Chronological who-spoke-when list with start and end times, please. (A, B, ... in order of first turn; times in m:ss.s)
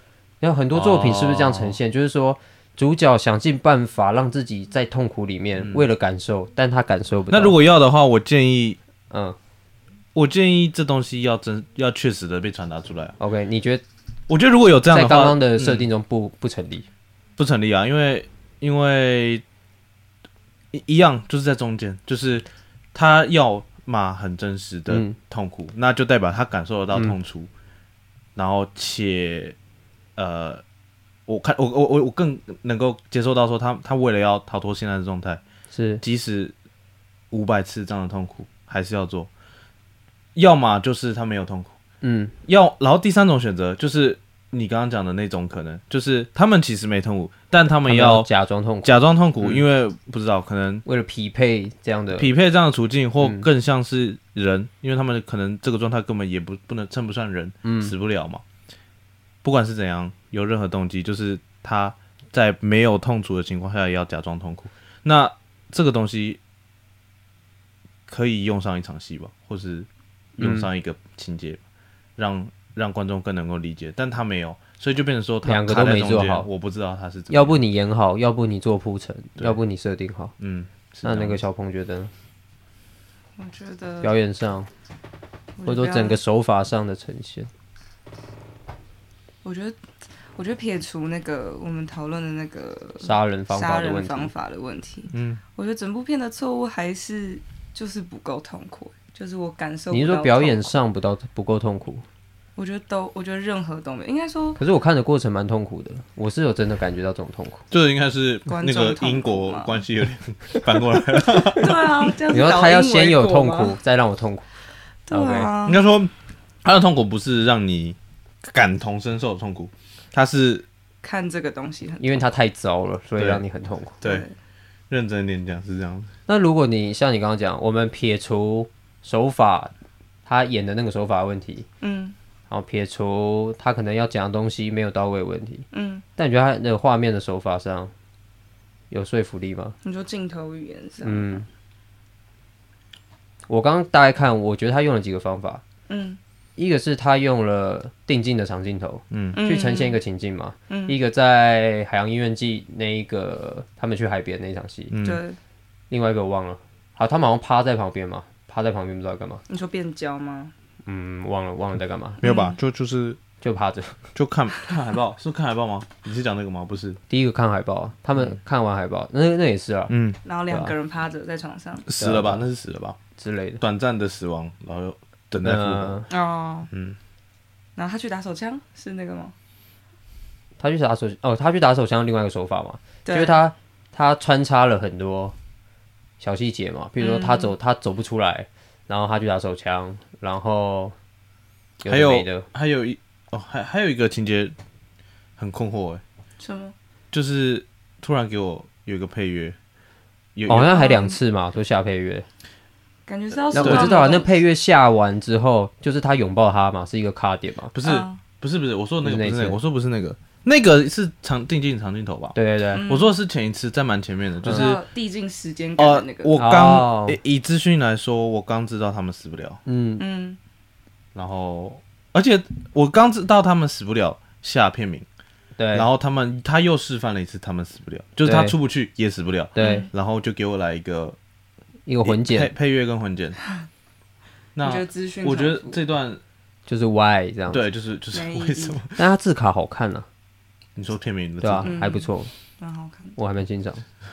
0:00.4-0:07.6 A
0:00.7-0:01.8 B
0:05.6-0:05.8 B
0:07.3-0:08.8 B
0:09.1-0:09.4 A
0:10.2-0:13.2 B
0:13.2-0:13.8 A
0:14.3-0:15.9 B
0:14.9-0:16.9 A
0:17.4-0:19.4 B
0:20.7-0:27.5 B
0:24.9-0:25.2 A
0:28.4-0:29.6 B
0:30.2-0:30.6 B
0:31.3-0:35.4 B
0:35.7-0:36.0 A
0:36.0-0:36.5 B
0:37.3-0:39.3 B
0:40.4-0:41.7 B
0:42.0-0:42.4 A
0:42.5-0:48.3 B
0:47.8-0:49.6 A
0:48.8-0:50.8 B
0:50.8-0:52.3 A
0:52.2-0:58.4 B
0:53.2-0:53.5 A
0:57.6-0:57.9 A
0:59.4-1:06.4 B
1:08.1-1:11.6 B
1:10.4-1:10.7 A
1:12.2-1:17.6 B
1:15.4-1:16.5 A
1:17.3-1:20.3 A
1:20.4-1:21.4 B
1:21.0-1:22.1 A
1:23.4-1:24.1 C
1:24.0-1:24.7 A
1:25.6-1:26.2 C
1:25.6-1:27.5 A
1:29.4-1:29.8 C
1:30.4-1:40.7 C
1:33.0-1:34.3 A
1:35.1-1:35.4 B
1:39.9-1:42.0 A
1:42.6-1:44.6 C
1:44.6-1:47.6 A
1:47.7-1:52.1 B
1:48.5-1:49.8 C
1:51.3-1:53.8 C
1:52.3-1:54.5 A
1:55.1-1:55.8 C
1:55.1-1:55.5 A
1:55.6-1:56.1 B
1:56.6-2:00.7 B
2:01.0-2:02.2 C
2:02.0-2:04.0 A
2:03.2-2:03.4 B
2:04.0-2:04.3 B
2:04.0-2:04.3 C
2:04.9-2:06.1 B
2:06.3-2:09.7 A
2:10.3-2:11.7 A
2:11.8-2:12.2 C
2:12.5-2:17.9 A
2:15.7-2:16.0 C
2:18.9-2:19.8 A
2:19.8-2:21.4 C
2:21.0-2:21.5 A
2:23.5-2:25.6 A
2:25.9-2:26.2 C
2:26.6-2:35.0 A
2:29.1-2:29.4 B
2:29.3-2:30.0 C
2:30.7-2:31.0 C
2:34.9-2:35.2 B
2:35.0-2:35.4 C
2:35.9-2:39.4 A
2:39.5-2:40.5 C
2:40.8-2:42.2 A
2:42.2-2:43.2 B
2:42.2-2:42.6 C
2:43.4-2:44.1 A
2:44.2-2:47.0 B
2:47.1-2:50.0 A
2:49.9-2:50.2 B
2:50.2-2:51.9 C
2:50.5-2:50.7 A
2:51.9-2:53.0 B
2:52.0-2:52.4 A
2:53.2-2:53.6 A
2:53.6-2:56.0 B
2:55.4-2:56.1 A
2:56.1-2:56.7 C
2:56.7-2:57.0 B
2:57.8-2:59.3 C
3:00.6-3:05.4 A
3:03.0-3:03.4 C
3:06.2-3:11.0 A
3:07.0-3:07.5 C
3:11.8-3:12.5 A
3:11.9-3:14.6 B
3:15.4-3:16.0 B
3:16.4-3:16.8 C
3:17.1-3:19.6 B
3:20.4-3:20.8 B
3:20.5-3:22.3 A
3:20.7-3:21.2 C
3:23.1-3:24.4 C
3:23.5-3:24.0 B
3:23.5-3:27.7 A
3:27.7-3:34.8 B
3:27.8-3:28.2 C
3:29.0-3:29.6 A
3:32.4-3:32.8 A
3:32.7-3:33.1 C
3:34.4-3:34.7 A
3:34.5-3:36.4 C
3:35.8-3:39.6 B
3:36.4-3:37.2 A
3:39.7-3:40.0 A
3:40.0-3:40.4 C
3:41.2-3:45.1 B
3:45.6-3:45.9 A
3:45.7-3:51.2 B
3:48.2-3:48.6 A
3:49.6-3:49.9 A
3:49.6-3:49.9 C
3:51.9-3:52.5 A
3:52.0-3:53.4 B
3:54.6-3:56.2 B
3:54.6-3:55.8 C
3:56.7-3:57.6 A
3:57.5-3:59.0 B
3:58.1-3:58.8 C
3:59.0-4:00.1 A
4:00.8-4:01.7 B
4:01.4-4:02.3 A
4:01.6-4:03.2 C
4:03.2-4:03.8 A